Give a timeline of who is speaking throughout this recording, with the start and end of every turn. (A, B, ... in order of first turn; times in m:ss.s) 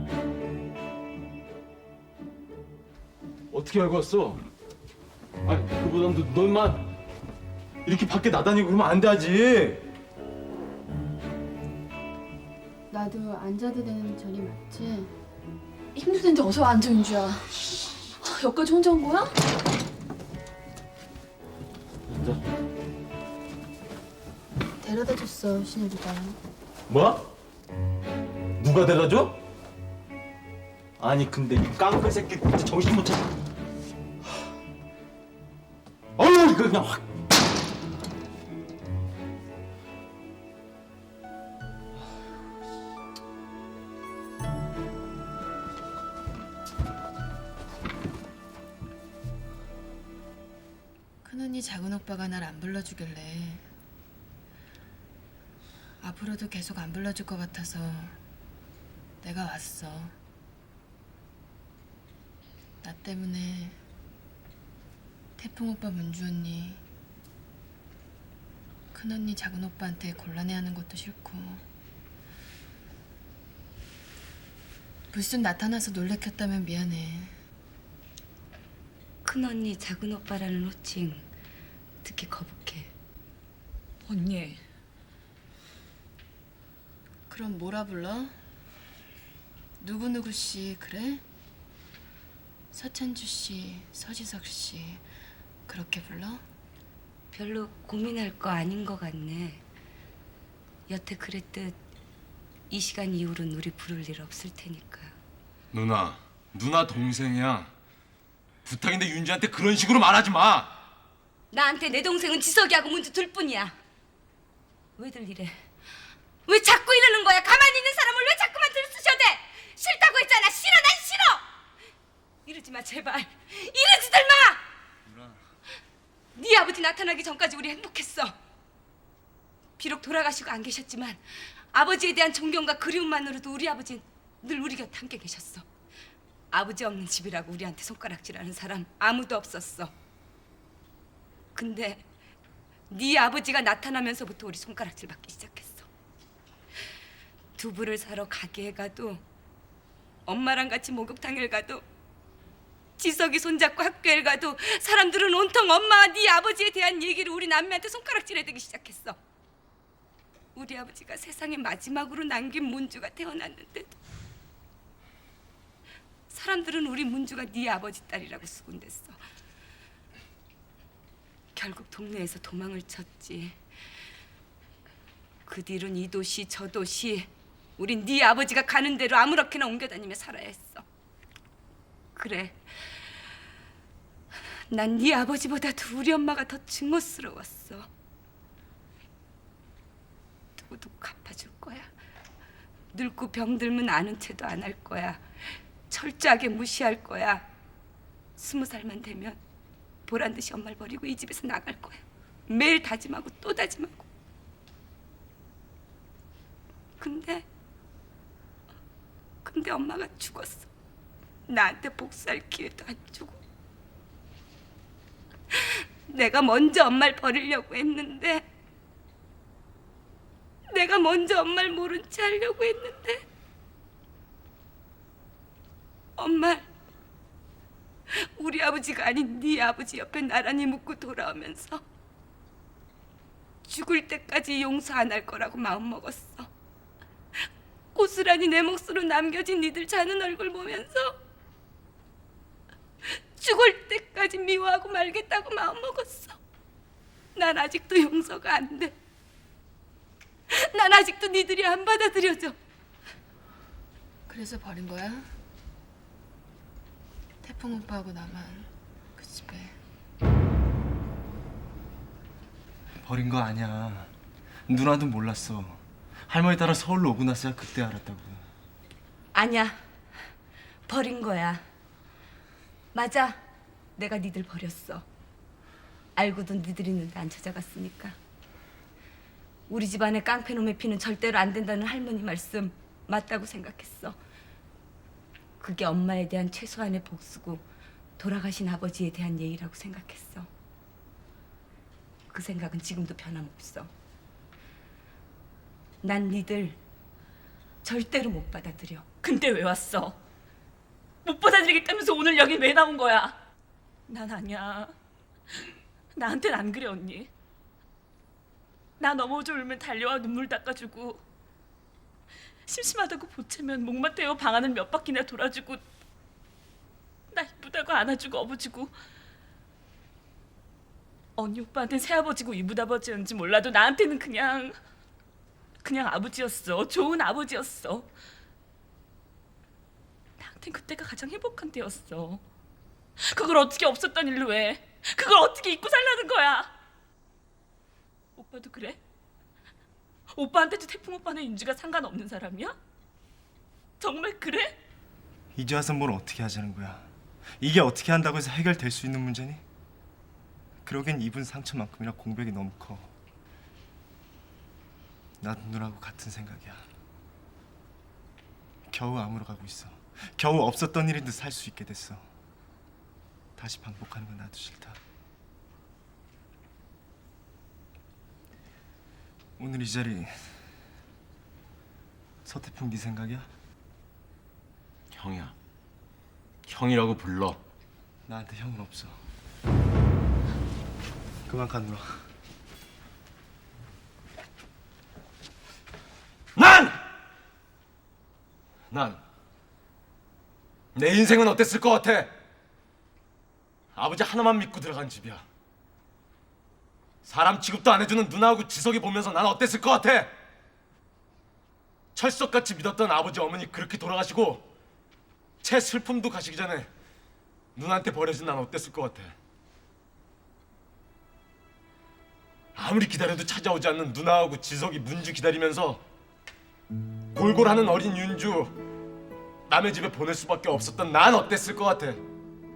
0:03.5-0:04.4 A
0:05.5-0:06.8 A
0:07.9-0:09.8 A
0:12.9-0:15.1 B
0:16.0-0:17.2 C
0:17.0-0:17.4 B
0:18.2-0:19.3 C
0:24.8-0:26.4 B
0:26.9-0:27.2 A
0:28.6-0:29.3 A
0:31.0-0:33.2 A
0:51.2-0:53.7 B
0:56.0-0:58.2 B
0:59.2-1:00.2 B
1:02.8-1:03.8 B
1:05.4-1:06.8 B
1:08.9-1:11.6 B
1:15.1-1:17.4 B
1:19.2-1:21.3 D
1:22.0-1:22.9 D
1:24.1-1:24.6 E
1:27.3-1:28.3 B
1:29.8-1:31.2 B
1:32.7-1:35.0 B
1:35.7-1:36.4 B
1:37.3-1:39.6 D
1:40.9-1:41.8 D
1:42.7-1:45.2 D
1:45.7-1:47.7 A
1:48.6-1:50.7 A
1:51.5-1:53.8 D
1:55.0-1:55.6 D
1:56.5-2:01.4 D
2:02.5-2:04.6 D
2:05.1-2:05.4 F
2:06.4-2:08.4 D
2:09.8-2:11.2 D
2:11.7-2:15.6 D
2:16.5-2:19.9 D
2:21.6-2:22.0 D
2:22.9-2:25.9 D
2:27.6-2:29.2 D
2:30.3-2:31.8 D
2:33.0-2:39.2 D
2:40.6-2:44.0 D
2:46.3-2:49.2 D
2:51.6-2:53.6 D
2:55.5-3:00.8 D
3:02.2-3:02.6 D
3:04.7-3:07.9 D
3:10.6-3:11.9 D
3:12.9-3:17.4 D
3:18.4-3:19.4 D
3:20.1-3:24.1 D
3:27.0-3:27.5 D
3:29.4-3:30.7 D
3:31.5-3:33.4 D
3:35.5-3:38.5 D
3:40.7-3:43.2 D
3:46.2-3:46.7 D
3:48.1-3:51.8 D
3:53.7-3:56.5 D
3:58.0-4:01.2 D
4:03.4-4:06.4 D
4:07.4-4:08.9 D
4:10.5-4:12.6 D
4:14.3-4:15.3 B
4:17.4-4:19.8 B
4:23.0-4:24.1 F
4:24.7-4:28.4 F
4:29.3-4:29.8 D
4:30.9-4:31.6 D
4:32.9-4:33.4 D
4:34.0-4:35.0 D
4:36.2-4:38.2 D
4:39.7-4:44.2 D
4:45.6-4:47.6 D
4:48.2-4:50.5 D
4:52.3-4:53.9 D
4:56.0-4:56.8 D
4:57.8-4:59.1 D
4:59.2-5:00.2 E
5:01.2-5:03.4 E
5:04.1-5:05.0 E
5:06.2-5:07.3 E
5:09.0-5:11.2 E
5:12.7-5:15.8 E
5:17.3-5:19.0 E
5:21.4-5:24.8 E
5:25.8-5:28.1 E
5:30.4-5:32.4 E
5:33.2-5:36.7 E
5:38.4-5:39.0 E
5:40.3-5:42.8 E
5:44.0-5:44.8 E
5:45.6-5:47.1 F
5:47.6-5:49.6 F
5:50.8-5:53.1 F
5:55.4-5:56.9 F
5:58.9-6:02.3 F
6:03.6-6:05.0 F
6:09.6-6:10.6 F
6:12.4-6:13.5 F
6:15.1-6:15.5 A
6:16.7-6:17.6 A
6:18.3-6:19.2 F
6:21.5-6:22.3 F
6:26.6-6:27.0 A
6:28.9-6:29.2 A
6:31.0-6:32.3 A
6:34.0-6:35.4 A
6:37.2-6:40.3 A
6:42.2-6:44.7 A
6:45.6-6:46.9 A
6:47.8-6:49.4 A
6:52.8-6:56.0 A
6:57.4-6:58.7 A
6:59.7-7:02.2 A